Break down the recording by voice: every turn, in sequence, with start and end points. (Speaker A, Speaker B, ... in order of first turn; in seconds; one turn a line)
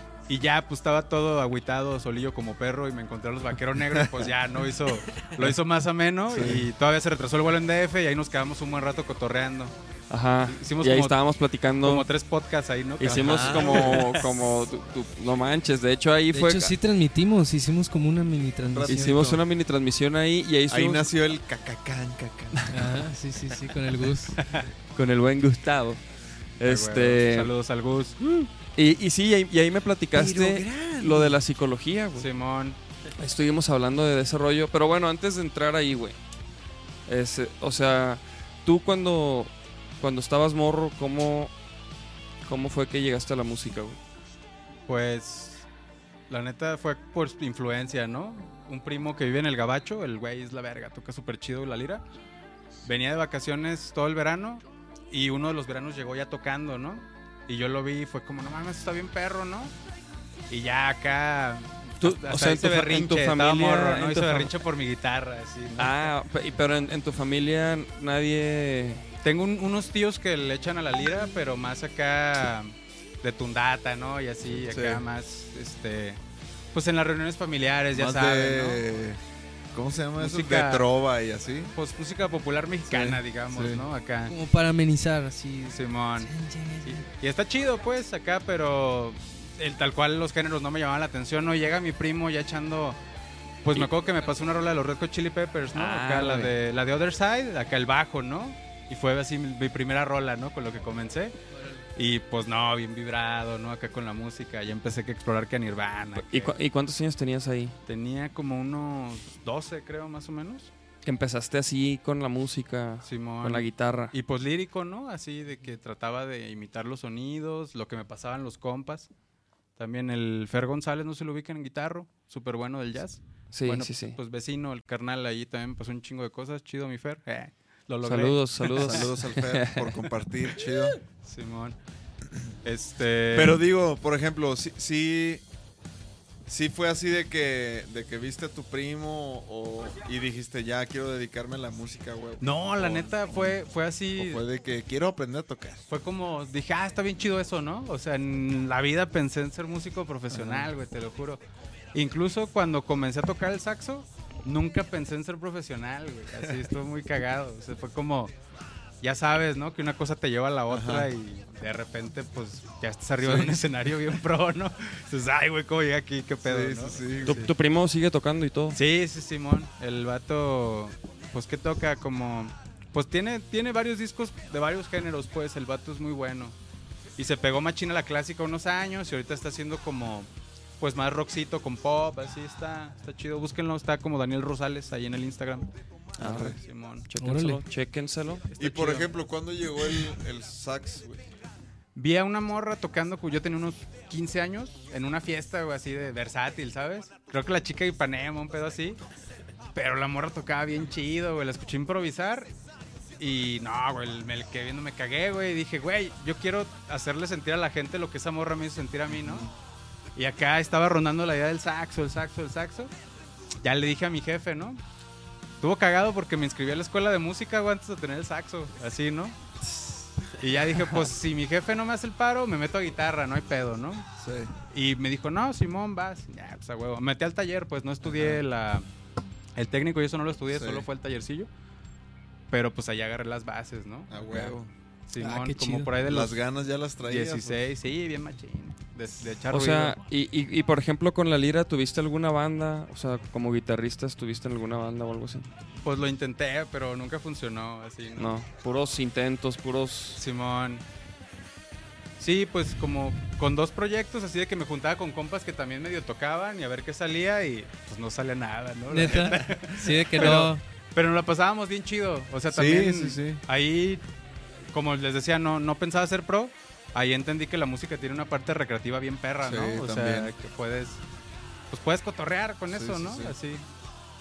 Speaker A: 0.3-9.7
Speaker B: 4.0-4.3
Speaker B: 6.3-6.7
Speaker C: 10.1-12.1
Speaker A: 10.5-11.2
Speaker A: 11.8-14.3
Speaker C: 13.0-16.8
Speaker B: 13.0-14.1
Speaker D: 16.3-19.2
Speaker B: 18.7-19.4
Speaker C: 18.9-21.1
Speaker B: 20.7-22.7
Speaker D: 22.7-24.4
Speaker A: 24.4-24.7
Speaker C: 24.9-26.0
Speaker C: 26.6-27.5
Speaker A: 26.6-28.5
Speaker C: 28.8-32.3
Speaker B: 30.1-31.4
Speaker A: 32.2-32.8
Speaker C: 33.2-36.2
Speaker C: 37.1-41.5
Speaker C: 42.4-44.0
Speaker A: 44.9-45.7
Speaker A: 46.3-52.0
Speaker A: 52.8-59.8
Speaker A: 60.5-66.1
Speaker C: 62.0-64.5
Speaker C: 65.8-69.0
Speaker A: 69.2-76.2
Speaker B: 74.7-75.0
Speaker A: 76.7-78.8
Speaker B: 77.9-79.2
Speaker B: 79.7-81.7
Speaker A: 80.2-80.9
Speaker A: 81.8-84.3
Speaker B: 82.9-83.8
Speaker D: 84.3-87.1
Speaker A: 85.7-86.3
Speaker A: 86.9-93.0
Speaker A: 93.6-101.3
Speaker C: 95.7-96.5
Speaker D: 101.5-101.9
Speaker A: 102.0-106.6
Speaker C: 106.2-107.8
Speaker A: 107.9-110.7
Speaker C: 111.0-114.1
Speaker A: 113.0-119.1
Speaker A: 119.8-129.1
Speaker C: 123.5-124.2
Speaker C: 128.0-129.9
Speaker B: 128.8-131.0
Speaker A: 131.2-131.8
Speaker A: 132.6-133.6
Speaker B: 133.3-135.4
Speaker B: 136.5-143.6
Speaker A: 142.4-144.4
Speaker B: 144.2-145.8
Speaker A: 145.9-151.4
Speaker B: 150.3-150.7
Speaker A: 151.9-158.3
Speaker A: 159.0-167.5
Speaker B: 160.7-161.1
Speaker B: 163.2-163.6
Speaker B: 166.4-167.4
Speaker C: 167.3-168.8
Speaker A: 168.7-176.6
Speaker A: 177.2-180.3
Speaker A: 180.8-185.7
Speaker B: 186.2-186.6
Speaker C: 186.2-188.4
Speaker A: 186.3-187.1
Speaker D: 187.2-187.6
Speaker A: 188.3-189.1
Speaker B: 188.6-191.2
Speaker A: 191.9-199.0
Speaker A: 199.7-202.5
Speaker A: 203.2-209.5
Speaker B: 209.2-209.5
Speaker A: 210.2-212.9
Speaker A: 213.6-214.8
Speaker A: 215.6-219.4
Speaker A: 220.4-224.1
Speaker B: 224.2-224.5
Speaker A: 224.7-228.9
Speaker B: 228.0-228.4
Speaker A: 229.6-231.5
Speaker B: 230.5-230.9
Speaker A: 232.5-234.6
Speaker B: 234.1-234.7
Speaker A: 235.1-236.4
Speaker D: 235.2-235.9
Speaker B: 236.0-237.6
Speaker A: 237.0-240.0
Speaker C: 239.5-245.5
Speaker A: 245.8-248.3
Speaker C: 248.2-250.2
Speaker A: 250.2-250.8
Speaker A: 252.2-264.0
Speaker D: 258.9-260.6
Speaker B: 259.1-259.6
Speaker B: 260.2-260.5
Speaker B: 262.5-263.4
Speaker A: 264.7-271.0
Speaker B: 269.4-270.3
Speaker A: 271.7-273.6
Speaker B: 272.7-273.4